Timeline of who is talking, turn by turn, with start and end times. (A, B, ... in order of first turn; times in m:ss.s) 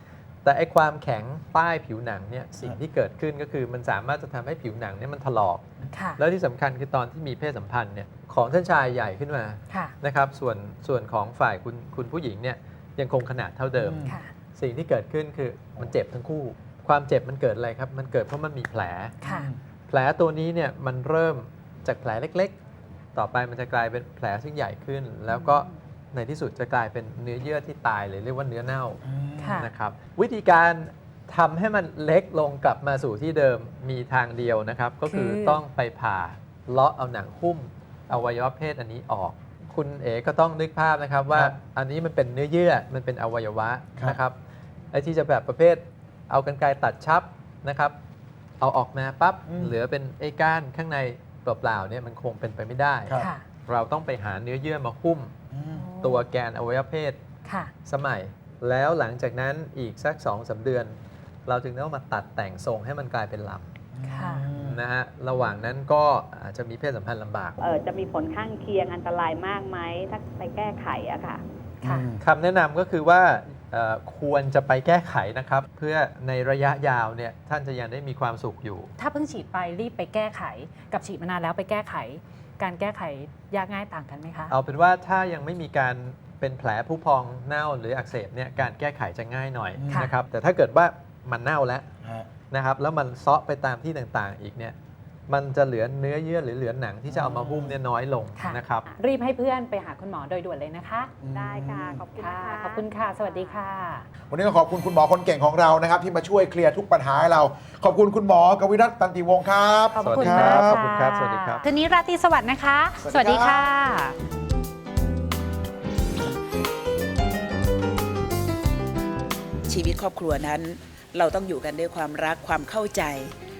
0:00.4-0:05.6 A
0:05.9-0:06.2 B
0:06.2-0:19.2 A
0:09.7-0:10.0 B
0:13.8-0:14.2 C
0:14.0-0:14.3 B
0:19.2-0:19.5 B
0:19.2-0:19.6 C
0:19.9-0:22.6 A
0:23.2-0:29.0 A
0:25.3-0:25.6 B
0:29.0-0:29.7 C
0:29.4-0:29.7 B
0:29.5-0:44.4 A
0:35.0-0:35.6 B
0:44.9-0:48.0 A
0:48.6-0:55.4 A
0:49.5-0:49.8 C
0:53.1-0:53.4 B
0:55.5-0:56.0 C
0:55.7-0:56.2 B
0:56.0-0:57.2 A
0:57.5-0:57.7 B
0:57.8-1:01.0 A
1:01.5-1:03.7 A
1:03.9-1:04.8 C
1:04.1-1:04.5 B
1:04.5-1:07.6 A
1:07.6-1:11.4 D
1:11.8-1:12.2 C
1:12.2-1:18.9 A
1:19.0-1:24.5 B
1:24.5-1:31.9 A
1:29.8-1:30.1 C
1:32.0-1:32.3 C
1:32.5-1:34.8 A
1:35.3-1:38.9 A
1:37.1-1:37.8 C
1:38.4-1:41.1 B
1:41.2-1:42.0 C
1:41.3-1:43.7 D
1:42.2-1:44.0 B
1:44.3-1:50.8 C
1:50.0-1:54.2 B
1:50.0-1:51.7 A
1:53.0-1:53.7 C
1:59.7-2:03.3 E